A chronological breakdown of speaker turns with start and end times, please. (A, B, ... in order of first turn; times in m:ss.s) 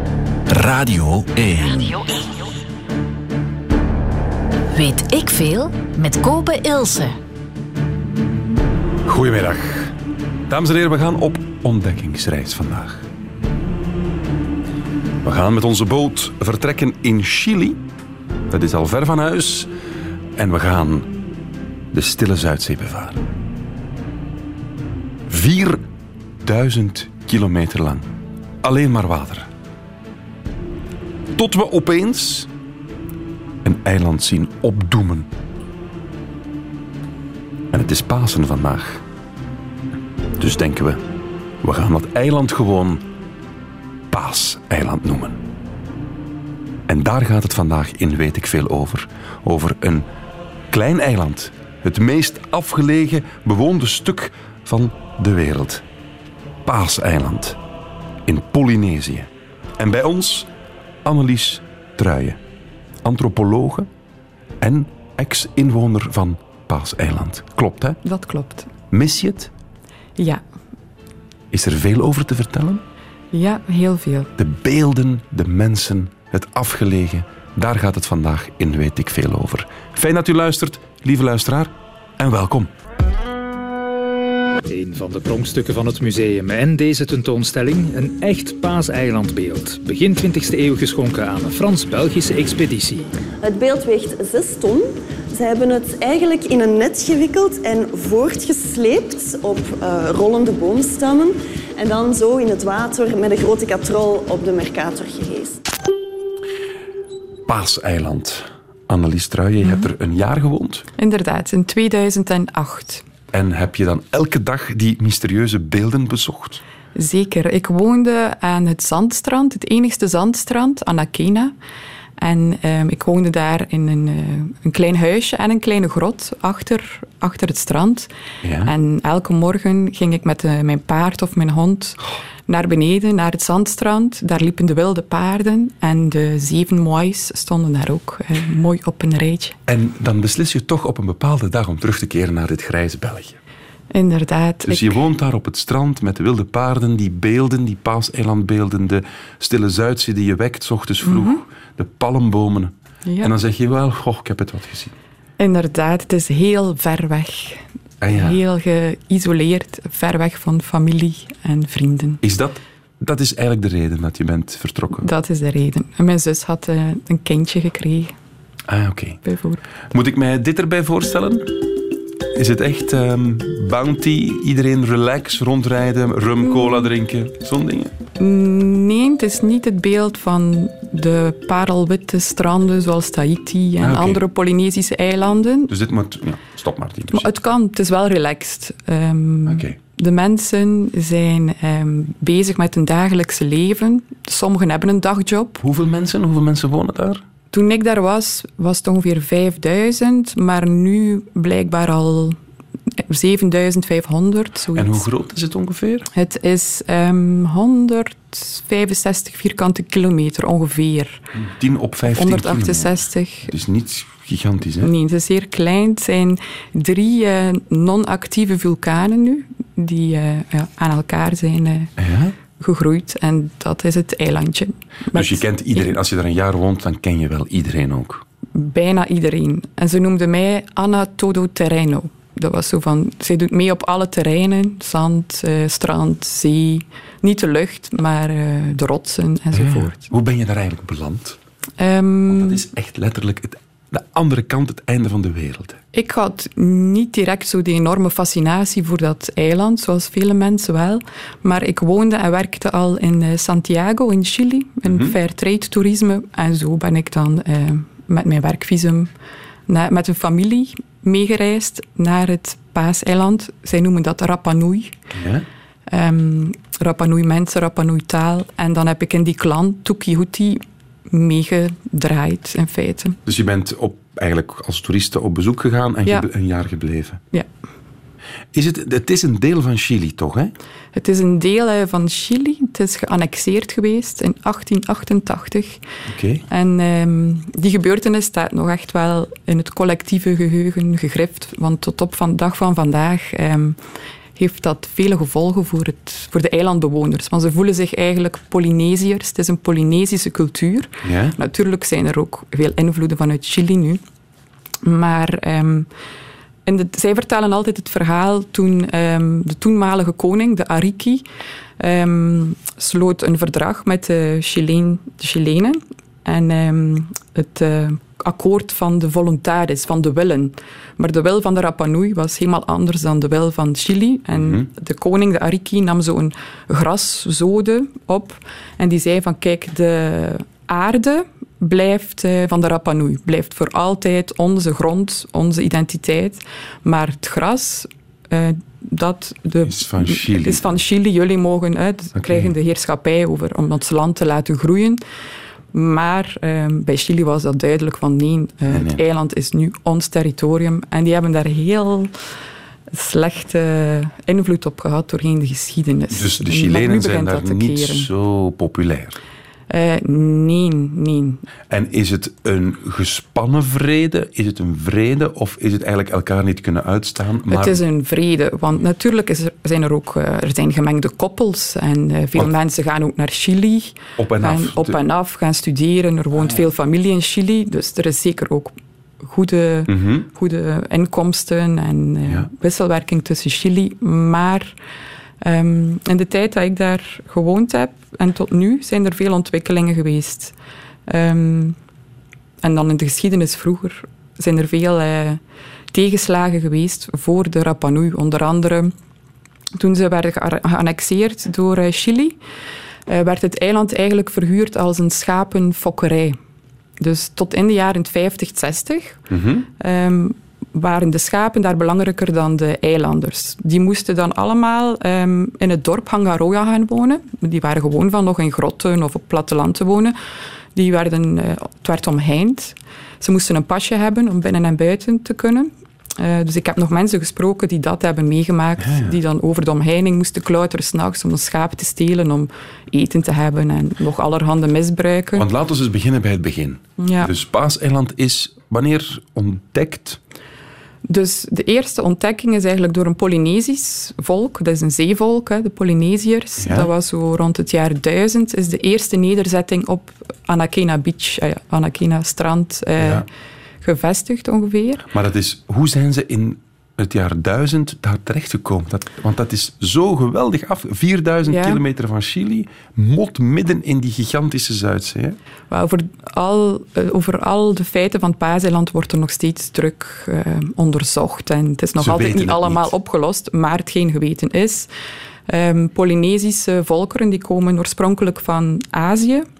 0:00.5-0:02.0 A
0:04.7-0:07.2 B
0:09.0-0:09.9 A
0:10.5-0:13.0 A
0:15.2-0:17.8 A
0:18.5-0:19.7 A
0:20.4-0:21.1 A
0:21.9-0:23.2 A
0:25.3-0:25.8 A
0:26.4-0:28.1 A
0:28.6-0:29.5 A
0:31.4-0:32.5 A
0:33.6-0:35.3 A
0:37.7-0:39.0 A
0:40.4-0:41.0 A
0:41.6-0:43.0 A
0:44.1-0:45.4 A
0:46.9-0:50.1 A
0:50.7-0:55.8 A
0:56.6-0:57.6 A
0:58.2-1:00.5 A
1:01.0-1:02.4 A
1:03.0-1:03.9 A
1:04.6-1:08.0 A
1:08.0-1:08.7 C
1:08.9-1:09.5 A
1:10.2-1:10.4 C
1:11.5-1:12.8 A
1:13.3-1:14.3 C
1:14.4-1:22.7 A
1:24.7-1:33.1 D
1:33.4-1:45.6 E
1:47.5-1:50.8 A
1:49.6-1:49.9 C
1:51.0-1:53.0 C
1:53.3-1:56.6 A
1:56.9-2:01.5 C
2:02.2-2:08.1 C
2:08.4-2:08.7 A
2:08.6-2:19.6 C
2:19.7-2:23.4 A
2:23.9-2:25.0 C
2:24.6-2:34.9 A
2:31.0-2:31.4 C
2:33.0-2:33.3 C
2:35.4-2:42.2 C
2:38.0-2:38.4 A
2:42.2-2:45.1 A
2:45.0-2:48.1 C
2:48.7-2:49.2 A
2:49.2-2:49.6 C
2:49.9-2:51.6 A
2:52.3-2:57.9 A
2:58.2-3:05.7 C
3:03.8-3:04.2 A
3:05.7-3:07.3 A
3:07.1-3:15.6 C
3:09.4-3:09.8 A
3:15.6-3:17.2 A
3:17.5-3:22.4 C
3:22.9-3:25.1 C
3:24.7-3:26.1 A
3:26.1-3:31.3 C
3:31.3-3:34.9 A
3:32.1-3:33.5 C
3:34.8-3:41.9 C
3:42.0-3:42.3 A
3:42.6-3:45.9 C
3:45.1-3:48.2 A
3:48.5-4:00.0 C
3:59.5-4:01.4 A
4:01.8-4:02.6 C
4:02.3-4:05.8 A
4:05.9-4:19.1 C
4:14.8-4:15.2 A
4:19.7-4:24.9 C
4:25.1-4:25.4 A
4:25.9-4:33.2 C
4:33.2-4:37.2 A
4:38.5-4:40.5 A
4:40.9-4:45.8 C
4:46.1-4:46.4 A
4:46.5-4:53.8 C
4:54.4-5:04.0 C
5:01.0-5:01.4 A
5:04.8-5:05.9 C
5:06.6-5:11.2 C
5:11.8-5:45.0 C
5:24.3-5:24.7 A
5:39.6-5:40.7 A
5:42.2-5:42.5 A
5:45.7-5:52.1 C
5:48.7-5:49.0 A
5:52.9-5:58.1 C
5:56.1-5:59.2 A
5:59.7-6:01.4 C
6:01.7-6:07.8 A
6:07.5-6:24.8 C
6:14.2-6:15.0 A
6:16.4-6:16.6 A
6:19.9-6:20.3 A
6:25.4-6:30.5 C
6:31.1-6:31.8 C
6:32.6-6:35.4 C
6:35.9-6:38.9 C
6:39.8-6:42.4 C
6:43.1-6:46.4 C
6:47.0-7:00.1 C
6:49.3-6:49.7 A
7:00.7-7:15.5 C
7:08.8-7:09.2 A
7:15.4-7:20.2 A
7:17.0-7:17.3 C
7:21.0-7:33.2 C
7:26.6-7:26.9 A
7:33.0-7:33.2 A
7:33.8-7:35.0 C
7:35.1-7:45.4 A
7:41.4-7:41.8 C
7:45.7-7:54.9 C
7:52.0-7:52.9 A
7:55.5-7:59.5 C